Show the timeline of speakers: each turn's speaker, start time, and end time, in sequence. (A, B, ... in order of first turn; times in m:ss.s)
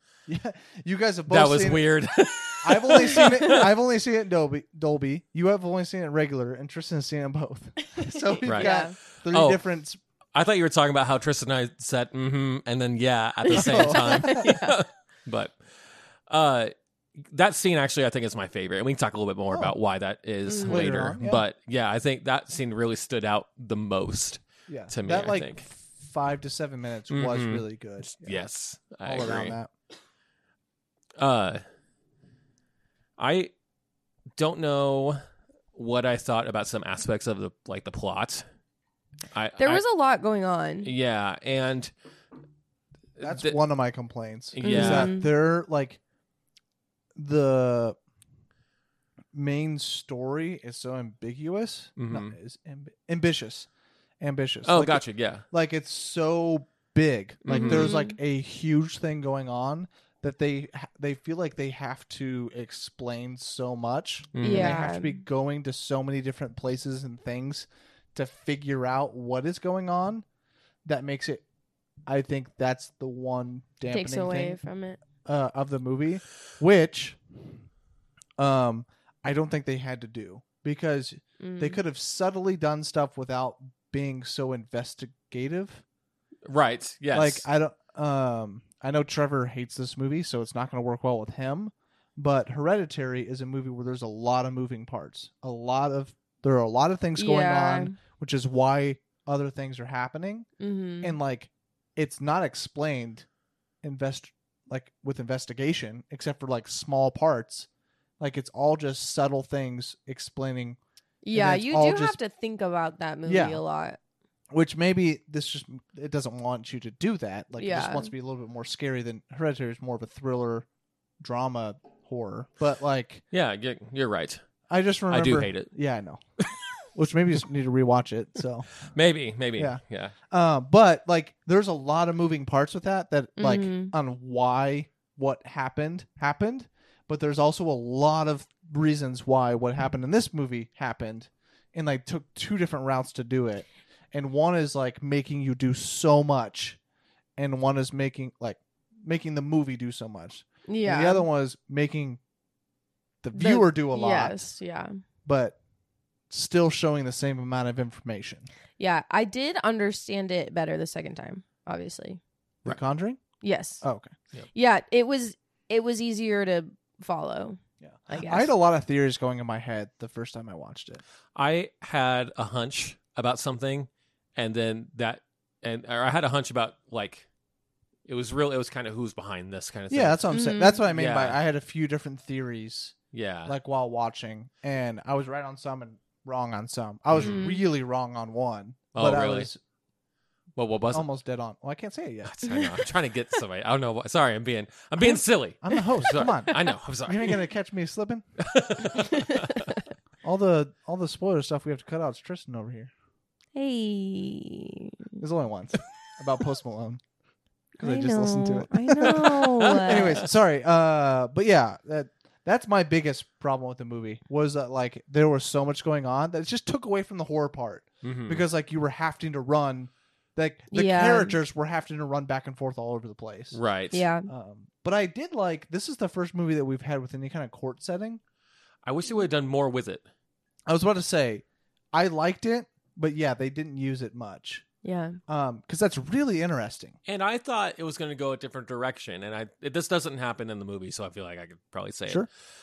0:00.3-0:01.9 A
0:01.3-0:03.7 B
0:02.6-0:10.0 A
0:03.2-0:03.5 C
0:07.9-0:08.9 C
0:08.4-0:09.6 B
0:10.3-0:15.7 B
0:13.5-0:14.7 C
0:13.5-0:14.4 A
0:16.3-0:25.6 B
0:20.5-0:21.3 C
0:20.6-0:21.4 A
0:24.7-0:28.4 A
0:27.1-0:29.6 B
0:29.0-0:29.7 A
0:31.2-0:31.6 B
0:33.2-0:33.5 B
0:34.4-0:35.2 B
0:35.7-0:38.4 B
0:39.3-0:39.8 B
0:39.6-0:40.9 C
0:40.8-0:41.9 B
0:43.2-0:43.6 B
0:43.2-0:46.0 A
0:44.5-0:45.1 B
0:44.6-0:45.3 C
0:47.2-0:48.0 A
0:49.3-0:53.7 A
0:52.0-0:52.3 B
0:54.2-1:10.2 A
0:54.6-0:55.4 B
0:57.4-0:57.9 B
0:57.5-0:58.2 C
1:04.3-1:04.8 B
1:04.4-1:05.2 C
1:10.8-1:11.4 A
1:12.1-1:14.6 A
1:13.9-1:15.0 C
1:15.2-1:17.5 A
1:18.4-1:25.8 A
1:21.4-1:21.8 C
1:26.4-1:27.4 B
1:27.1-1:40.5 A
1:37.2-1:37.9 C
1:40.6-1:41.2 C
1:41.0-1:43.3 A
1:43.8-1:47.7 A
1:48.2-1:50.8 A
1:51.2-1:54.0 C
1:51.3-1:52.2 A
1:53.2-1:53.6 A
1:54.5-2:00.7 A
1:57.6-1:58.1 C
2:01.2-2:03.2 A
2:03.3-2:04.4 B
2:04.7-2:06.2 A
2:05.1-2:05.7 B
2:06.9-2:08.7 A
2:08.9-2:10.1 B
2:09.6-2:26.8 A
2:13.4-2:13.9 C
2:27.4-2:32.2 A
2:30.7-2:31.2 C
2:33.2-2:34.4 A
2:33.3-2:35.0 C
2:35.2-2:35.6 A
2:36.3-2:38.5 A
2:38.8-2:42.2 C
2:42.6-2:43.2 A
2:43.4-2:43.8 C
2:43.8-2:44.1 A
2:44.5-2:48.5 C
2:47.8-2:51.0 A
2:51.4-2:57.2 B
2:58.0-3:00.3 B
2:59.9-3:09.6 A
3:00.3-3:00.8 C
3:00.9-3:01.4 B
3:03.1-3:03.5 B
3:07.1-3:07.4 B
3:07.2-3:07.6 C
3:08.9-3:09.5 B
3:10.6-3:11.1 B
3:10.9-3:12.4 A
3:12.2-3:17.4 B
3:12.4-3:12.8 C
3:15.6-3:18.2 A
3:18.4-3:19.7 B
3:18.9-3:19.8 C
3:20.2-3:22.9 A
3:23.5-3:25.0 C
3:25.2-3:27.0 A
3:27.8-3:30.2 C
3:27.8-3:43.6 A
3:29.7-3:30.1 B
3:38.0-3:38.4 B
3:40.7-3:41.4 C
3:43.5-3:44.0 B
3:43.9-3:44.3 C
3:44.3-3:48.2 A
3:48.8-3:50.0 B
3:50.7-3:54.6 A
3:54.8-3:55.2 C
3:55.3-3:57.0 A
3:57.1-4:02.3 B